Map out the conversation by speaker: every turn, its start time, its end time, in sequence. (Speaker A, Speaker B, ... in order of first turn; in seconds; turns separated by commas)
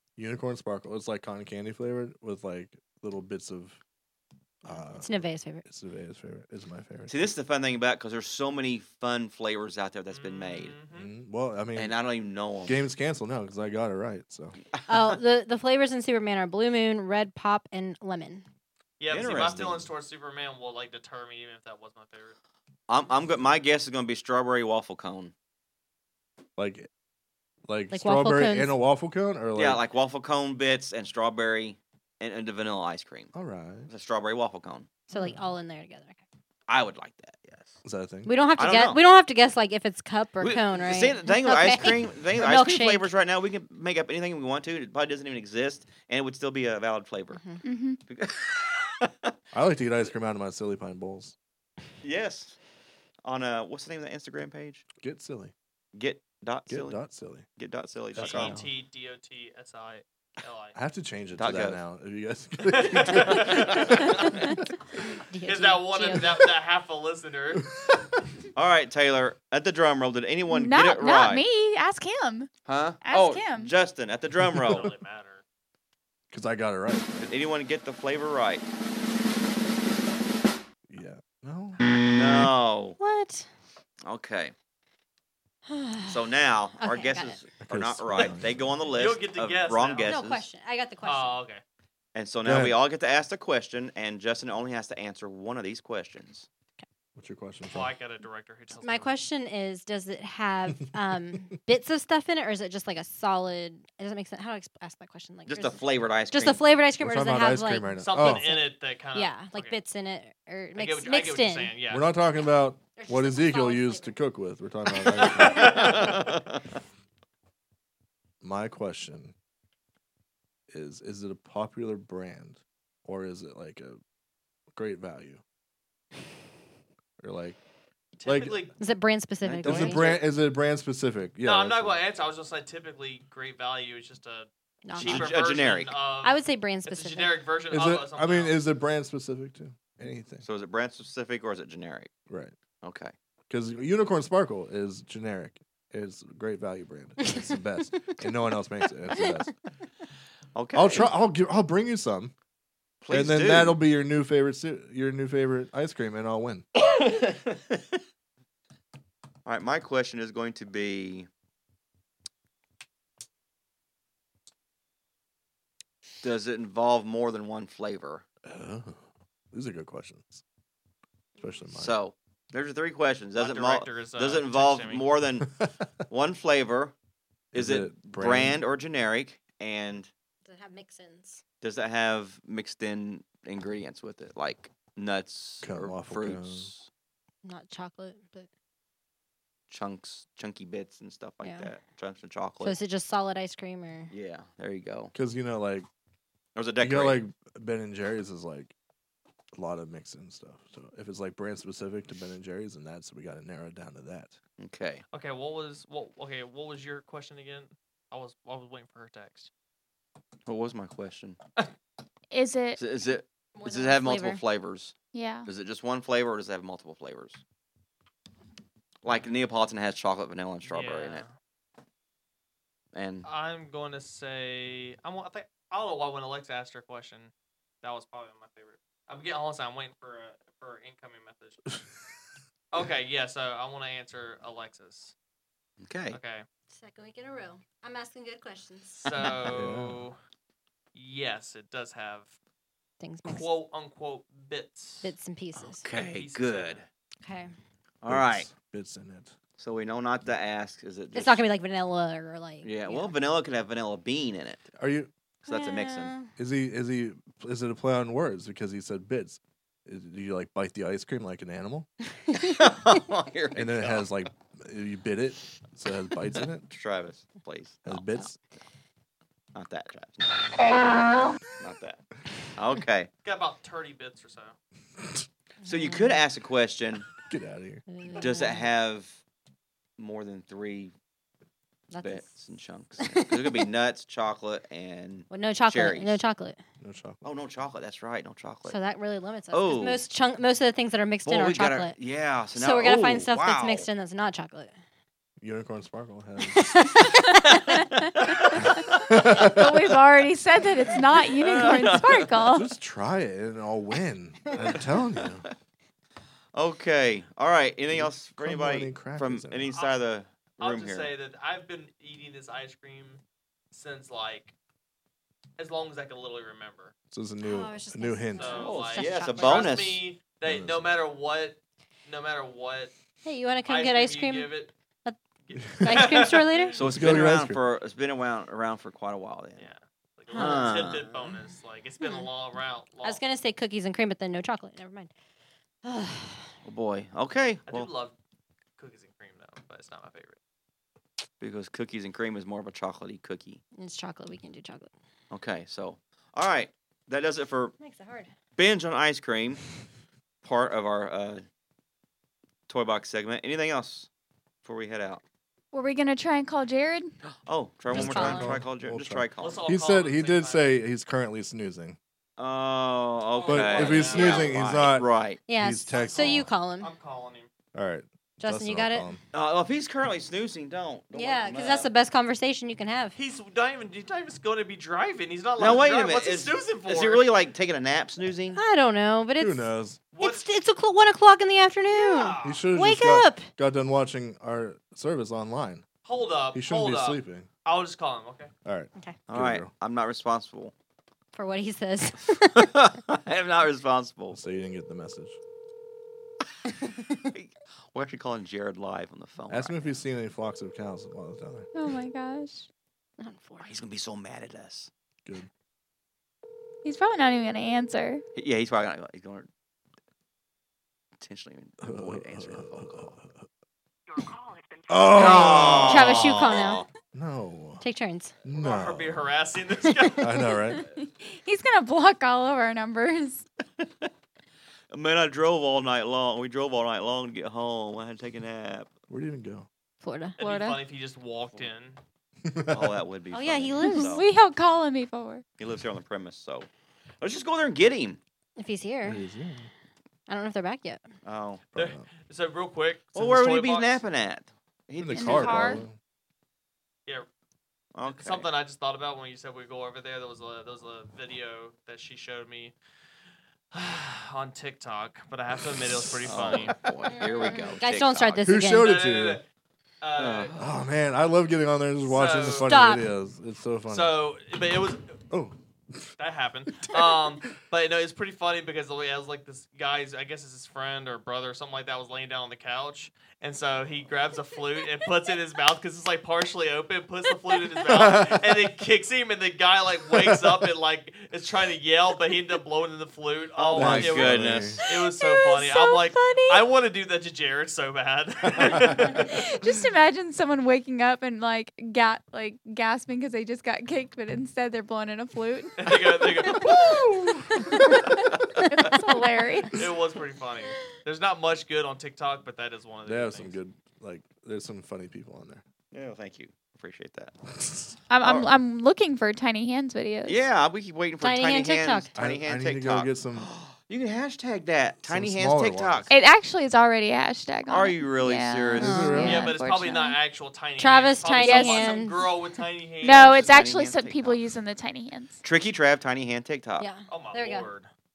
Speaker A: 0.2-3.8, Speaker A: 4.6-7.3, Speaker B: 5.0-5.6, Speaker C: 7.1-10.7, Speaker D: 10.1-11.1, Speaker A: 10.9-11.9, Speaker C: 11.7-12.8, Speaker A: 12.7-14.6, Speaker C: 14.7-15.2, Speaker B: 14.9-18.4, Speaker D: 19.0-22.4, Speaker C: 19.1-19.9, Speaker A: 19.4-19.6, Speaker C: 22.9-25.3, Speaker A: 26.6-26.9, Speaker A: 27.7-29.8, Speaker B: 27.9-28.7, Speaker C: 29.6-33.3, Speaker A: 33.3-33.9, Speaker C: 33.9-34.9, Speaker B: 35.1-36.2, Speaker C: 36.7-37.7, Speaker A: 37.8-38.3, Speaker B: 38.2-43.1, Speaker C: 38.6-39.0, Speaker C: 40.4-47.4, Speaker B: 47.3-47.6, Speaker E: 47.6-48.0, Speaker C: 48.1-49.3, Speaker A: 49.5-51.3, Speaker C: 52.0-52.6, Speaker C: 53.2-54.8, Speaker A: 55.0-55.5, Speaker C: 55.9-57.0, Speaker A: 56.7-57.5, Speaker C: 57.5-58.6, Speaker A: 58.1-58.7, Speaker D: 58.1-60.7, Speaker A: 60.7-64.6, Speaker C: 61.4-61.8, Speaker D: 62.7-64.3, Speaker B: 64.0-66.4, Speaker D: 65.4-67.7, Speaker C: 68.5-71.4, Speaker E: 70.5-72.5, Speaker C: 72.7-74.9, Speaker E: 73.0-73.7, Speaker D: 74.5-75.4, Speaker A: 76.3-77.3, Speaker C: 77.2-78.6, Speaker A: 80.9-81.8, Speaker C: 82.0-83.0, Speaker B: 83.0-83.5, Speaker C: 84.0-84.5, Speaker B: 85.7-86.2, Speaker C: 86.0-90.4, Speaker B: 86.8-87.4, Speaker A: 87.6-88.7, Speaker D: 88.9-90.2, Speaker B: 90.0-91.3, Speaker D: 91.0-91.6, Speaker C: 92.1-96.5, Speaker A: 92.4-92.8, Speaker A: 97.1-97.9, Speaker D: 97.7-99.1, Speaker B: 98.8-105.8, Speaker C: 105.5-106.6, Speaker B: 106.3-108.6, Speaker A: 107.0-108.5, Speaker D: 108.0-109.8, Speaker B: 109.1-111.7, Speaker D: 110.8-112.0, Speaker A: 111.9-116.0, Speaker B: 113.0-114.2, Speaker D: 115.4-116.3, Speaker C: 115.5-116.6, Speaker A: 118.4-119.3, Speaker A: 120.7-124.0, Speaker A: 124.7-125.4, Speaker A: 127.2-127.6, Speaker D: 128.2-128.7, Speaker A: 128.2-128.6, Speaker B: 128.8-130.1, Speaker C: 129.4-130.2, Speaker A: 129.5-132.0, Speaker D: 131.4-138.6, Speaker B: 134.8-135.3, Speaker C: 134.9-135.9, Speaker B: 136.2-137.4, Speaker A: 137.7-140.4, Speaker C: 140.4-142.1, Speaker A: 142.3-142.5, Speaker C: 142.8-143.1, Speaker A: 143.5-149.5, Speaker C: 150.5-151.1, Speaker A: 150.7-152.3, Speaker C: 153.0-153.8, Speaker A: 153.1-156.6, Speaker C: 156.9-157.9, Speaker C: 159.4-161.3, Speaker C: 166.2-168.2, Speaker A: 168.4-169.0, Speaker A: 169.5-170.4, Speaker A: 171.4-171.9, Speaker C: 171.8-175.5, Speaker D: 173.3-175.1, Speaker C: 176.1-176.9, Speaker A: 177.5-178.6, Speaker C: 177.5-180.1, Speaker B: 180.4-181.4, Speaker C: 181.6-186.9, Speaker A: 185.6-186.7, Speaker B: 187.4-188.5, Speaker C: 189.7-192.8, Speaker B: 191.4-191.7, Speaker B: 192.6-194.1, Speaker C: 194.1-195.1, Speaker A: 195.1-195.9, Speaker C: 196.6-197.2, Speaker A: 196.8-198.7, Speaker A: 199.5-204.4, Speaker C: 204.6-205.0, Speaker D: 205.1-209.5, Speaker C: 210.4-211.4, Speaker E: 212.3-212.8, Speaker C: 212.8-214.9, Speaker B: 213.6-214.4, Speaker E: 215.1-215.5, Speaker C: 215.4-217.4, Speaker C: 219.0-221.2, Speaker D: 220.7-221.3, Speaker C: 222.9-223.2, Speaker D: 223.2-227.3, Speaker D: 227.8-231.7, Speaker D: 232.7-235.1, Speaker C: 235.8-236.2, Speaker D: 236.1-236.4, Speaker B: 236.7-239.0, Speaker D: 239.0-240.2, Speaker A: 239.5-240.0, Speaker D: 240.9-242.3, Speaker B: 243.0-243.5, Speaker D: 243.2-245.1, Speaker B: 245.0-245.8, Speaker C: 245.6-246.8, Speaker D: 245.9-246.8, Speaker B: 247.2-247.5, Speaker C: 248.0-248.5, Speaker A: 248.1-249.3, Speaker C: 249.6-251.4, Speaker B: 251.1-253.2, Speaker C: 252.6-254.6, Speaker A: 254.8-255.1, Speaker C: 255.4-256.1, Speaker B: 255.4-256.3, Speaker A: 256.4-261.9, Speaker C: 262.3-264.2, Speaker A: 263.5-266.7, Speaker C: 266.6-268.0, Speaker A: 267.8-268.4, Speaker C: 269.5-270.3, Speaker C: 271.6-272.0, Speaker C: 272.6-273.1, Speaker D: 273.2-274.6, Speaker C: 275.6-277.1, Speaker B: 275.6-276.1, Speaker A: 277.2-277.8, Speaker B: 277.9-278.6, Speaker C: 278.2-279.2, Speaker C: 280.0-280.9, Speaker B: 281.9-282.3, Speaker C: 282.0-286.2, Speaker B: 283.0-283.6, Speaker B: 285.3-286.6, Speaker A: 286.8-287.2, Speaker C: 287.2-288.8, Speaker B: 288.7-291.9, Speaker C: 289.5-290.0, Speaker C: 291.2-293.9, Speaker B: 292.6-294.7, Speaker A: 295.4-296.8, Speaker B: 296.7-297.8, Speaker C: 297.4-299.3, Speaker A: 299.1-299.8, Speaker E: 299.3-302.7, Speaker C: 301.4-302.3, Speaker A: 302.5-305.4, Speaker C: 306.5-311.1, Speaker A: 307.9-309.7, Speaker D: 310.6-314.5, Speaker D: 315.6-316.9, Speaker A: 317.1-318.6, Speaker B: 317.4-319.8, Speaker D: 318.4-322.9, Speaker C: 318.5-320.0, Speaker A: 320.4-320.9, Speaker B: 323.2-324.5, Speaker D: 323.6-324.7, Speaker D: 325.5-326.8, Speaker B: 325.8-326.8, Speaker C: 326.8-329.7, Speaker A: 326.8-327.6, Speaker D: 329.6-333.2, Speaker C: 330.3-331.1, Speaker B: 330.3-331.2, Speaker B: 332.0-332.3, Speaker B: 333.0-335.1, Speaker B: 335.8-336.4, Speaker C: 336.6-337.9, Speaker D: 337.7-338.1, Speaker D: 338.8-340.4, Speaker C: 341.4-343.6, Speaker B: 343.8-344.9, Speaker C: 345.3-347.7, Speaker B: 347.8-348.3, Speaker C: 348.6-349.6, Speaker C: 350.4-351.4, Speaker C: 352.7-354.1, Speaker C: 354.6-355.2, Speaker E: 355.7-357.1, Speaker C: 357.2-359.6, Speaker B: 357.9-358.6, Speaker A: 357.9-362.0, Speaker D: 359.4-360.7, Speaker C: 362.4-365.4, Speaker D: 363.3-364.9, Speaker A: 363.5-366.5, Speaker B: 365.5-366.9, Speaker D: 365.9-367.5, Speaker A: 367.7-369.2, Speaker B: 368.4-369.1, Speaker C: 369.3-371.9, Speaker B: 371.1-373.1, Speaker D: 373.1-377.3, Speaker C: 375.6-378.6, Speaker B: 378.5-379.7, Speaker A: 379.4-380.0, Speaker D: 380.1-380.5, Speaker B: 380.2-383.5, Speaker D: 381.9-382.6, Speaker A: 382.4-385.9, Speaker D: 386.1-388.5, Speaker A: 386.5-387.5, Speaker A: 388.6-389.7, Speaker C: 389.3-390.7, Speaker B: 391.3-392.7, Speaker C: 392.5-394.4, Speaker A: 394.3-395.4, Speaker C: 397.3-400.0, Speaker A: 399.5-401.7, Speaker E: 401.7-402.7, Speaker B: 403.2-403.7, Speaker C: 403.6-404.9, Speaker E: 406.8-408.2, Speaker C: 408.3-409.5, Speaker C: 411.2-413.1, Speaker A: 411.8-413.4, Speaker A: 414.9-416.1, Speaker C: 415.1-416.9, Speaker B: 415.3-416.8, Speaker A: 417.1-417.8, Speaker B: 417.8-418.3, Speaker A: 418.4-419.3, Speaker D: 418.5-420.5, Speaker A: 420.2-420.8, Speaker E: 420.6-423.4, Speaker C: 423.8-424.1, Speaker C: 424.9-428.9, Speaker A: 429.1-429.7, Speaker B: 430.0-430.4, Speaker E: 430.4-430.8, Speaker D: 430.4-432.0, Speaker A: 432.4-432.9, Speaker C: 432.7-434.2, Speaker B: 433.3-434.2, Speaker E: 433.8-435.4, Speaker C: 435.6-436.7, Speaker C: 437.2-438.2, Speaker B: 438.6-439.2, Speaker A: 439.0-439.7, Speaker B: 440.3-441.0, Speaker C: 441.2-441.6, Speaker A: 441.7-442.1, Speaker D: 441.7-444.0, Speaker C: 443.1-445.8, Speaker A: 445.0-445.9, Speaker E: 445.1-445.8, Speaker C: 447.9-448.5, Speaker D: 448.0-452.7, Speaker D: 453.7-456.7, Speaker A: 455.8-456.6, Speaker C: 456.2-458.5, Speaker B: 457.1-458.9, Speaker A: 458.4-459.4, Speaker D: 458.7-459.4, Speaker D: 460.0-460.6, Speaker C: 460.1-460.5, Speaker A: 460.6-464.2, Speaker D: 462.0-462.7, Speaker B: 462.5-463.1, Speaker D: 463.9-465.1, Speaker A: 465.3-466.1, Speaker D: 466.2-489.3, Speaker A: 466.8-467.4, Speaker A: 477.9-478.5, Speaker A: 480.1-480.6, Speaker C: 483.6-484.8, Speaker A: 483.7-484.8, Speaker E: 484.8-486.6, Speaker A: 488.6-489.1, Speaker E: 489.1-495.8, Speaker D: 495.8-496.7, Speaker E: 496.4-499.8, Speaker A: 496.7-497.6, Speaker D: 499.7-503.5, Speaker A: 503.1-505.6, Speaker C: 505.9-507.3, Speaker A: 507.5-507.9, Speaker E: 508.1-510.4, Speaker C: 508.2-508.5, Speaker C: 510.2-516.1, Speaker B: 511.2-512.1, Speaker A: 512.1-513.5, Speaker A: 515.0-516.1, Speaker E: 516.1-520.2, Speaker C: 517.7-519.0, Speaker B: 518.8-519.4, Speaker A: 518.8-519.4, Speaker D: 519.2-523.4, Speaker B: 520.8-522.3, Speaker E: 521.4-522.0, Speaker E: 523.0-525.4, Speaker C: 523.0-524.4, Speaker C: 525.4-526.9, Speaker B: 526.8-527.7, Speaker D: 527.1-527.9